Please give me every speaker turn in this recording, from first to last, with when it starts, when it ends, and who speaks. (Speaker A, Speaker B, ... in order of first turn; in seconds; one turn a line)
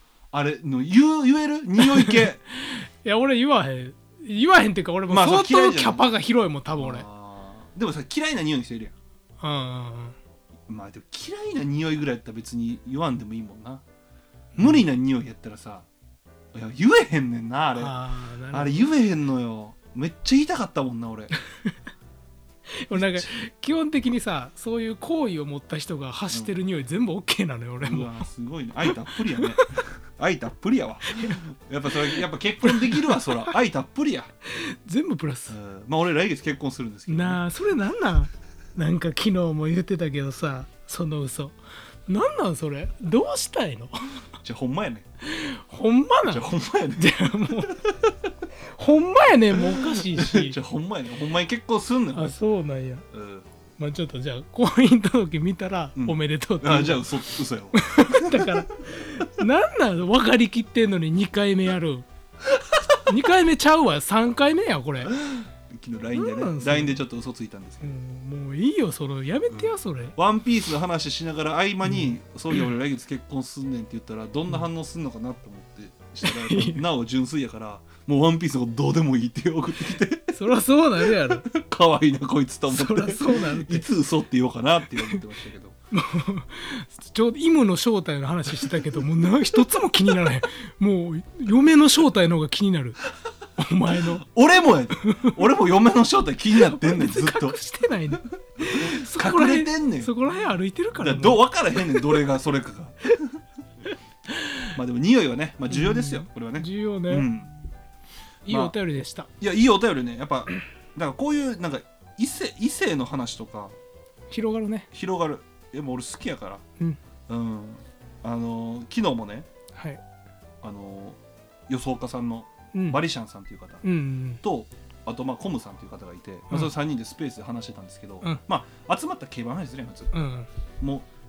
Speaker A: 0.3-2.4
Speaker B: 1.8-7.1
Speaker A: 5.1-6.0
Speaker A: 6.8-8.9
Speaker B: 9.4-10.2
Speaker A: 10.7-13.8
Speaker B: 14.6-14.8
Speaker A: 14.6-15.9
Speaker A: 16.5-18.0
Speaker B: 17.8-18.9
Speaker A: 18.5-21.3
Speaker B: 22.8-28.3
Speaker A: 22.9-23.3
Speaker A: 27.8-34.3
Speaker B: 29.2-29.6
Speaker B: 31.1-31.4
Speaker B: 32.6-33.4
Speaker B: 34.5-35.6
Speaker A: 35.5-37.4
Speaker B: 37.1-41.6
Speaker B: 42.1-44.1
Speaker A: 44.4-45.0
Speaker B: 45.2-47.9
Speaker A: 46.3-47.2
Speaker A: 47.8-48.1
Speaker B: 48.7-50.6
Speaker A: 50.0-52.3
Speaker B: 52.1-53.1
Speaker A: 53.1-53.5
Speaker B: 53.8-57.1
Speaker A: 56.0-58.5
Speaker B: 57.7-62.1
Speaker B: 63.1-65.2
Speaker A: 65.0-68.0
Speaker B: 66.1-67.0
Speaker B: 67.8-70.2
Speaker A: 69.5-80.3
Speaker B: 71.8-72.2
Speaker B: 76.2-76.8
Speaker B: 80.3-81.5
Speaker A: 81.2-85.8
Speaker B: 82.7-83.9
Speaker B: 85.9-93.0
Speaker B: 93.6-94.2
Speaker A: 94.2-97.6
Speaker B: 95.0-95.5
Speaker B: 96.5-102.2
Speaker A: 98.7-100.1
Speaker A: 101.0-103.1
Speaker A: 104.8-107.5
Speaker B: 105.7-107.3
Speaker B: 108.5-109.3
Speaker A: 109.4-113.8
Speaker B: 114.3-114.9
Speaker A: 114.9-116.6
Speaker A: 117.3-119.5
Speaker B: 119.7-120.0
Speaker A: 120.6-123.8
Speaker B: 122.7-123.0
Speaker B: 123.8-124.4
Speaker A: 124.4-130.1
Speaker B: 130.1-130.5
Speaker A: 130.8-131.1